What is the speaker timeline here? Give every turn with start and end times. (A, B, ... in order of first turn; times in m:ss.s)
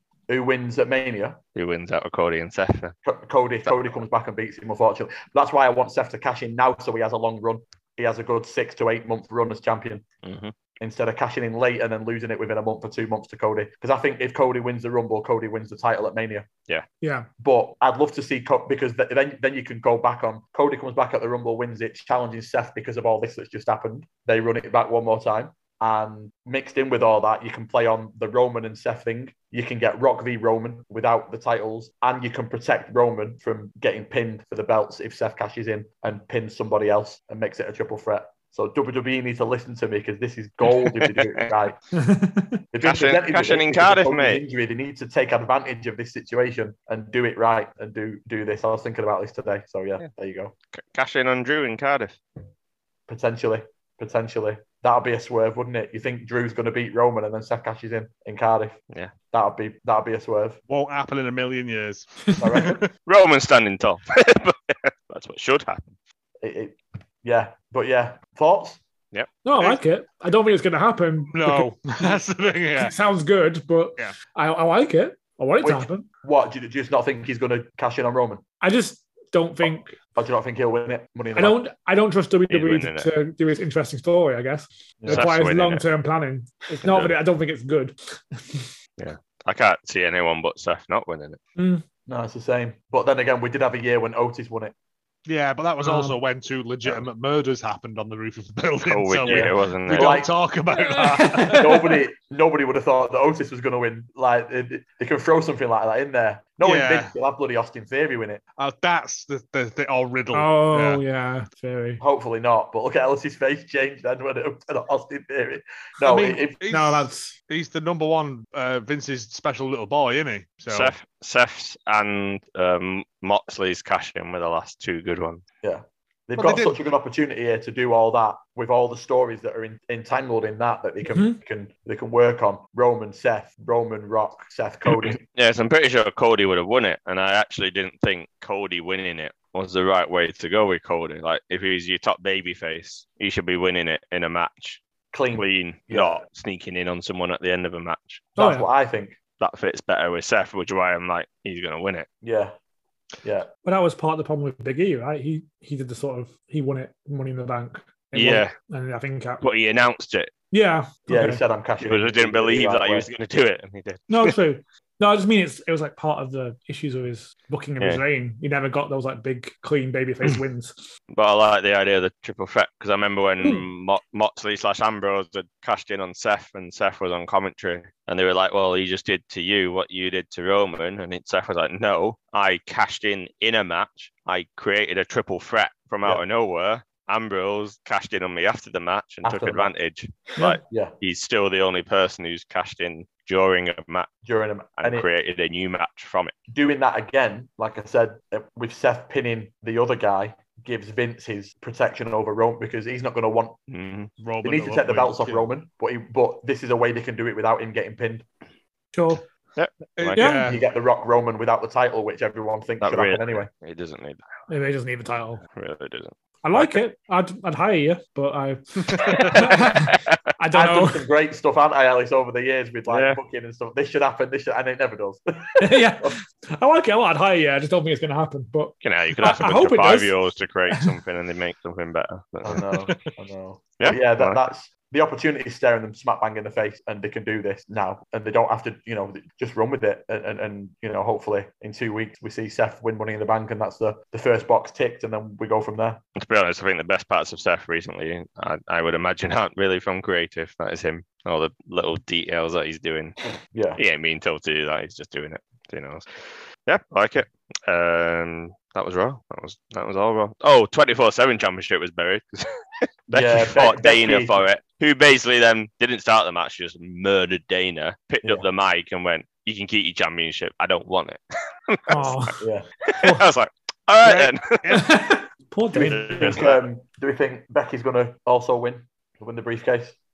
0:00.3-0:01.4 A
0:01.5-0:02.9 B
0:03.0-0:10.0 A
0:10.2-0:10.5 B
0:10.8-0:16.5 A
0:17.0-0:17.3 C
0:17.4-0:41.8 A
0:40.7-0:41.4 B
0:41.9-0:42.6 C
0:42.7-0:50.5 A
0:42.8-0:44.4 B
0:50.7-0:52.2 B
0:53.1-0:58.8 A
0:59.3-1:00.6 A
1:00.7-1:02.8 D
1:02.3-1:02.7 C
1:02.4-1:02.8 A
1:03.0-1:05.9 B
1:06.4-1:08.8 A
1:09.4-1:12.2 C
1:11.3-1:12.9 D
1:12.8-1:16.1 C
1:15.6-1:18.4 A
1:18.6-1:20.0 C
1:20.1-1:21.6 A
1:21.3-1:28.7 C
1:22.5-1:23.1 B
1:25.0-1:25.3 A
1:25.1-1:25.8 B
1:26.8-1:27.2 B
1:29.0-1:31.4 B
1:31.6-1:31.8 C
1:32.1-1:34.7 A
1:35.2-1:41.7 D
1:35.8-1:36.2 C
1:38.8-1:40.2 B
1:39.2-1:40.3 A
1:40.7-1:41.9 C
1:41.5-1:48.4 A
1:46.6-1:47.1 D
1:48.6-1:51.0 D
1:50.3-1:52.0 C
1:52.0-1:56.6 A
1:56.0-2:00.9 D
1:56.7-1:57.3 C
2:00.7-2:05.4 B
2:05.6-2:15.2 A
2:06.4-2:06.8 D
2:11.1-2:11.4 C
2:15.0-2:24.8 B
2:25.1-2:26.2 A
2:25.3-2:28.3 B
2:28.4-2:29.2 A
2:28.4-2:28.7 C
2:29.4-2:32.1 B
2:32.2-2:32.5 A
2:33.2-2:33.5 A
2:33.6-2:39.4 C
2:38.1-2:38.5 B
2:39.4-2:40.3 B
2:40.5-2:41.4 C
2:41.1-2:43.1 A
2:41.8-2:44.4 B
2:44.1-2:50.8 C
2:51.1-3:14.1 B
3:09.2-3:09.7 A
3:10.6-3:10.9 A
3:14.2-3:15.1 A
3:14.8-3:16.3 B
3:16.5-3:23.6 A
3:23.7-3:24.1 B
3:24.2-3:25.5 D
3:24.4-3:28.2 A
3:28.9-3:29.2 C
3:29.6-3:30.4 B
3:30.0-3:30.6 D
3:30.1-3:30.5 C
3:30.4-3:33.5 A
3:32.8-3:34.2 B
3:34.5-3:35.4 C
3:35.5-3:36.8 B
3:36.4-3:41.1 C
3:38.9-3:39.3 D
3:39.0-3:40.2 B
3:40.5-3:46.2 A
3:42.9-3:43.2 B
3:45.6-3:50.2 C
3:48.8-3:52.7 B
3:52.4-4:06.0 A
3:53.8-3:54.4 B
4:06.2-4:13.2 B
4:13.5-4:13.8 A
4:13.8-4:22.4 B
4:23.1-4:32.2 B
4:23.1-4:24.4 A
4:31.9-4:32.4 C
4:32.4-4:32.6 A
4:32.9-4:34.6 B
4:33.0-4:33.2 C
4:34.0-4:35.0 D
4:34.7-4:36.4 C
4:35.7-4:40.0 A
4:35.7-4:36.6 B